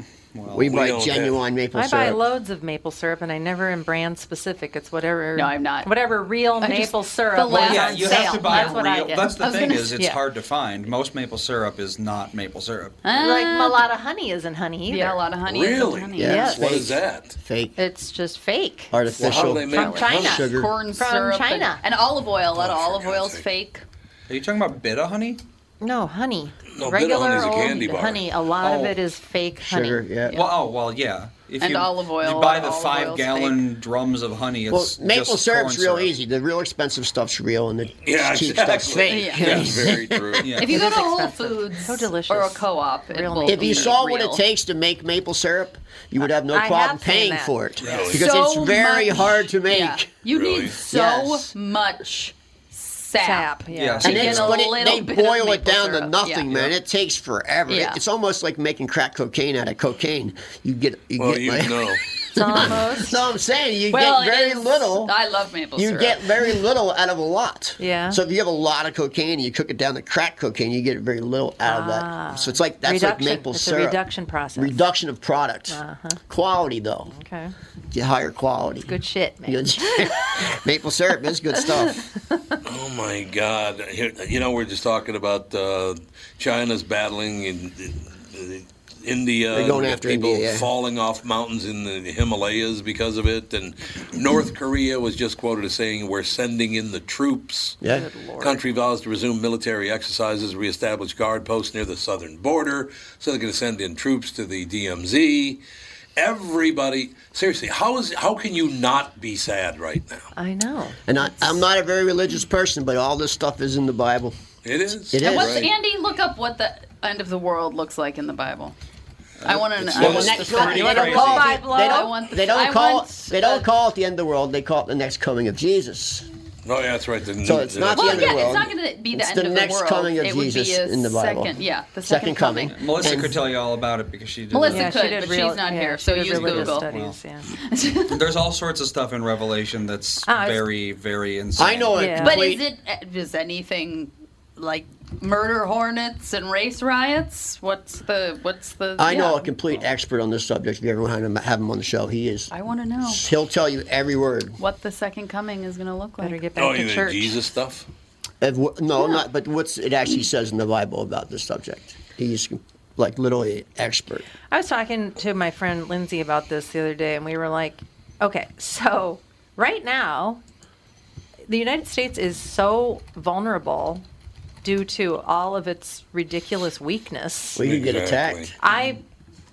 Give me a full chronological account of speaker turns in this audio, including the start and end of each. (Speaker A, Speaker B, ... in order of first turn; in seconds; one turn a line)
Speaker A: 0.3-0.8
Speaker B: 0.5-2.2
Speaker C: 0.6-1.4
Speaker D: 1.7-9.3
Speaker E: 5.3-5.9
Speaker E: 6.6-10.0
Speaker A: 7.4-13.0
Speaker D: 10.0-10.2
Speaker E: 13.0-13.8
Speaker D: 13.1-15.2
Speaker E: 14.9-16.6
Speaker C: 15.4-17.4
Speaker B: 16.1-17.8
Speaker D: 16.2-16.6
Speaker D: 17.8-21.8
Speaker B: 18.9-20.7
Speaker C: 19.2-20.6
Speaker E: 19.7-23.8
Speaker C: 22.5-23.5
Speaker A: 24.3-25.4
Speaker D: 25.8-30.1
Speaker C: 26.7-28.2
Speaker A: 28.6-29.0
Speaker B: 29.6-30.4
Speaker E: 30.2-30.5
Speaker A: 30.3-36.1
Speaker E: 31.6-33.7
Speaker B: 34.7-40.6
Speaker C: 38.0-40.7
Speaker E: 39.1-39.5
Speaker A: 39.4-39.8
Speaker A: 40.4-40.8
Speaker E: 40.6-44.4
Speaker D: 40.6-44.0
Speaker B: 43.5-50.1
Speaker D: 46.2-47.5
Speaker A: 47.8-48.2
Speaker C: 47.8-48.2
Speaker E: 48.1-56.6
Speaker C: 50.3-50.8
Speaker B: 50.8-51.5
Speaker D: 53.2-54.5
Speaker A: 53.7-54.6
Speaker B: 54.0-65.1
Speaker C: 54.2-54.5
Speaker E: 57.7-58.0
Speaker C: 61.2-62.0
Speaker D: 62.3-63.2
Speaker E: 63.9-66.6
Speaker B: 65.8-74.0
Speaker D: 67.8-68.2
Speaker D: 71.6-74.8
Speaker B: 74.5-77.1
Speaker D: 75.7-76.2
Speaker D: 77.1-77.5
Speaker B: 77.9-82.0
Speaker D: 78.9-80.4
Speaker C: 82.6-97.8
Speaker B: 89.5-90.7
Speaker B: 97.8-98.0
Speaker D: 97.9-98.6
Speaker C: 98.4-105.6
Speaker C: 106.2-110.3
Speaker D: 110.3-111.6
Speaker B: 111.0-114.3
Speaker C: 114.6-115.7
Speaker B: 115.1-115.7
Speaker E: 115.2-118.7
Speaker A: 119.4-121.6
Speaker E: 119.4-123.6
Speaker B: 119.9-126.3
Speaker D: 120.4-122.2
Speaker C: 126.6-128.7
Speaker B: 127.4-133.4
Speaker E: 127.9-133.2
Speaker A: 132.7-134.9
Speaker E: 134.5-136.9
Speaker D: 134.7-137.5
Speaker A: 136.3-137.2
Speaker E: 137.5-138.2
Speaker A: 138.1-142.1
Speaker D: 140.2-140.7
Speaker B: 141.6-142.6
Speaker D: 141.9-142.5
Speaker E: 142.2-149.5
Speaker B: 149.0-152.5
Speaker E: 152.5-153.2
Speaker B: 153.0-154.6
Speaker E: 154.6-156.4
Speaker D: 156.2-157.4
Speaker C: 156.6-157.9
Speaker B: 158.4-164.2
Speaker D: 164.5-170.4
Speaker D: 171.5-174.0
Speaker D: 174.6-177.7
Speaker B: 177.6-178.6
Speaker C: 177.6-178.5
Speaker D: 178.6-179.0